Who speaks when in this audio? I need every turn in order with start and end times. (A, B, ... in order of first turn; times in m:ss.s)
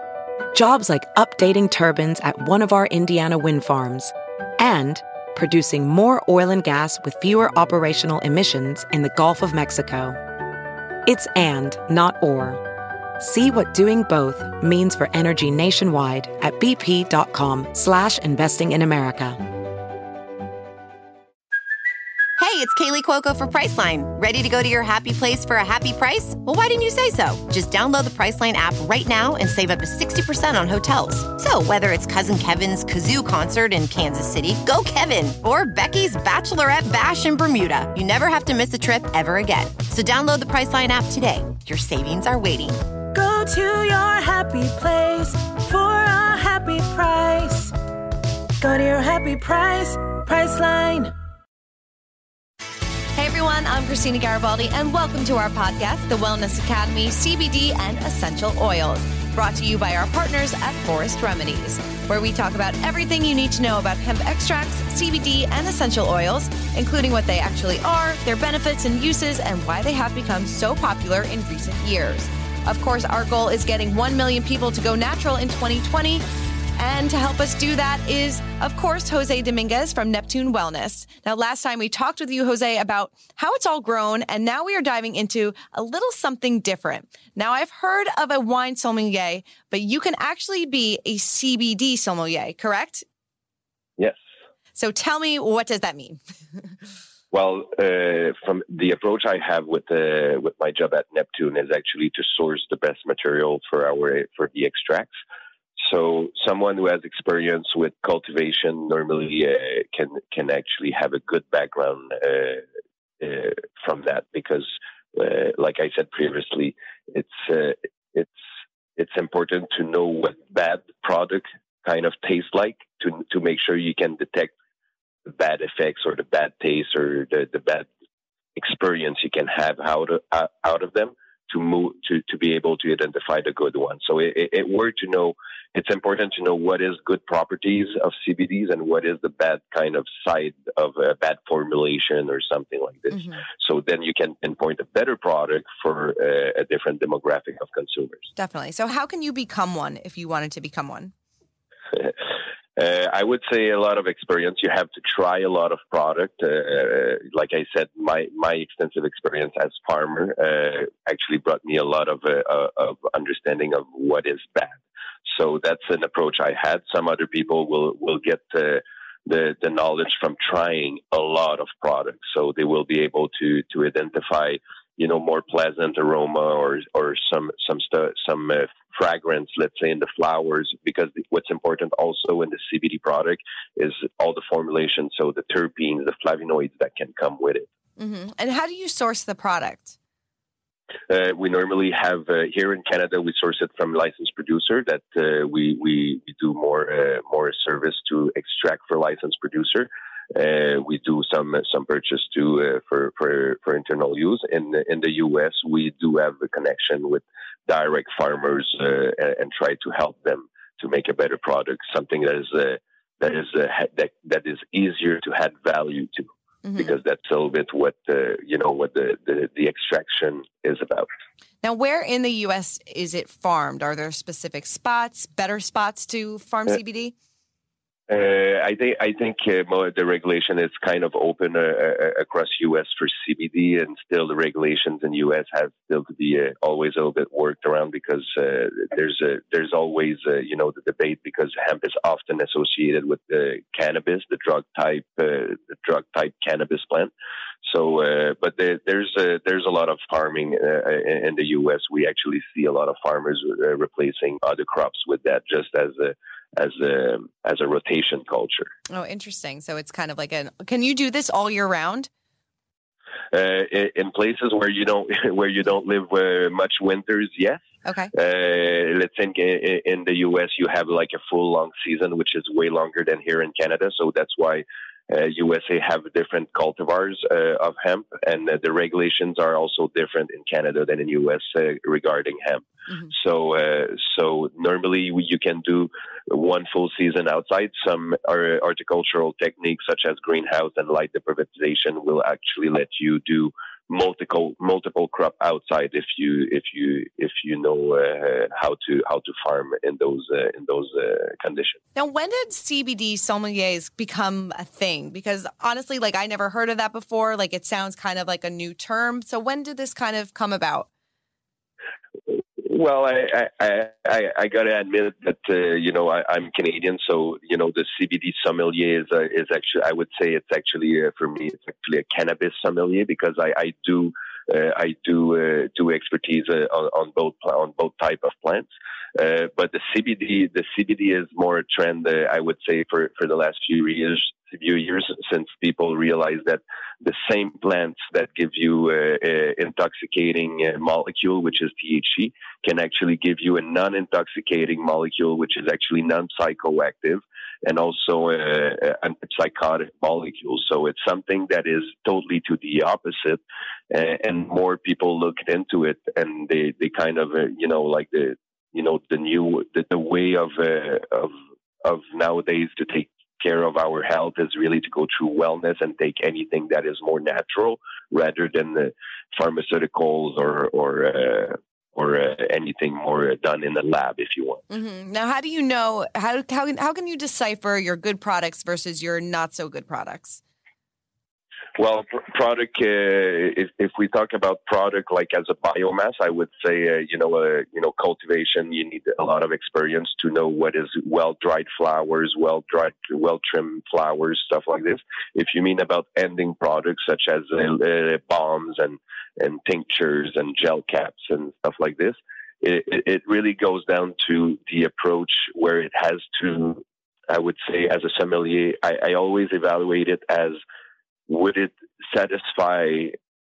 0:00.5-0:10.2 A
0:11.1-0:12.6 A
0:13.2-0:19.4 A
0:22.4-0:42.7 B
0:43.1-0:47.7 C
0:48.6-0:51.1 C
0:53.2-1:16.2 D
1:16.8-1:33.0 D
1:34.7-1:36.8 D
1:37.3-1:45.1 E
1:45.8-1:52.6 E
1:53.2-1:58.4 E
1:59.0-2:04.5 E
2:05.3-2:07.9 E
2:08.6-2:28.3 E
2:28.4-2:31.1 D
2:32.8-3:07.7 E
3:08.0-3:10.0 D
3:11.1-3:41.1 E
3:36.6-3:36.9 D
3:41.6-3:47.2 D
3:48.1-4:07.1 E
4:07.6-4:18.7 E
4:18.9-4:22.1 D
4:23.3-4:27.6 E
4:27.8-4:28.1 D
4:28.1-5:01.8 E
5:02.0-5:10.9 D
5:12.3-6:01.3 E
6:01.8-6:14.6 E
6:14.7-6:20.4 D
6:21.8-6:50.6 E
6:51.3-6:53.2 E